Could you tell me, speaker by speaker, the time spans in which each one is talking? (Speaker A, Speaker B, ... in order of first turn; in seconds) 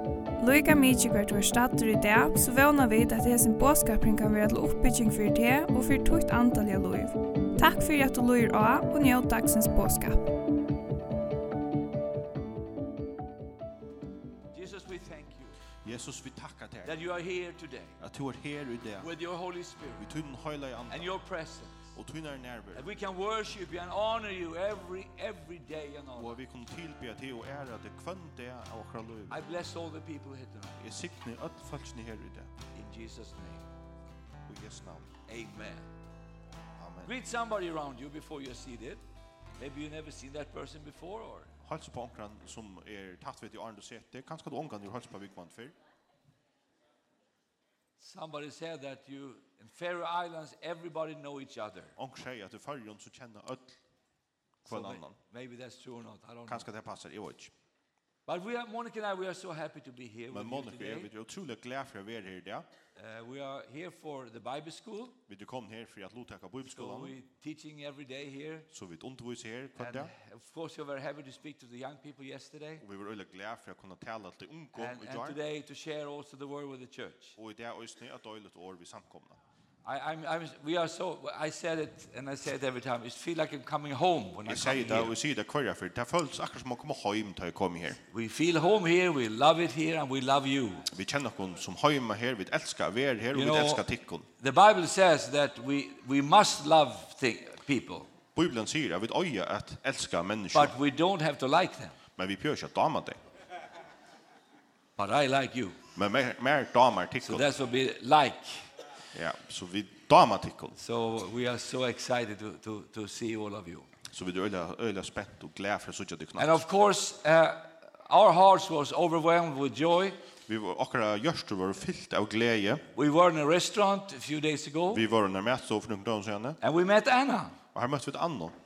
Speaker A: 0.4-10.3
Speaker B: 14.5-15.5, 16.8-17.9, 19.0-20.0, 20.9-21.8, 22.7-26.4, 29.3-30.8, 32.7-33.6, 35.3-35.8, 37.0-39.0, 39.6-41.5, 48.0-51.9, 54.7-56.6, 58.3-61.1, 63.0-65.2, 66.7-68.7, 69.8-72.8, 74.8-77.3, 79.8-85.1, 88.1-90.9, 93.3-93.8, 94.4-98.1, 100.5-102.0, 105.0-105.8, 107.2-108.6, 110.8-113.9, 116.4-120.2, 122.9-125.0, 126.6-127.5
Speaker C: 15.8-16.9, 18.0-19.1, 20.0-21.2, 21.9-22.9, 26.2-29.4, 30.8-32.5, 34.5-35.1, 36.8-37.1, 41.6-45.7, 52.0-53.8, 54.6-55.2, 56.5-57.5, 60.3-62.6, 65.3-67.1, 68.7-70.1, 72.8-75.4, 77.3-79.4, 84.5-88.0, 90.9-94.3, 98.3-100.8, 102.2-103.2, 105.9-107.5, 109.1-110.8, 114.1-116.6, 120.5-122.8, 124.9-126.6, 127.7-128.5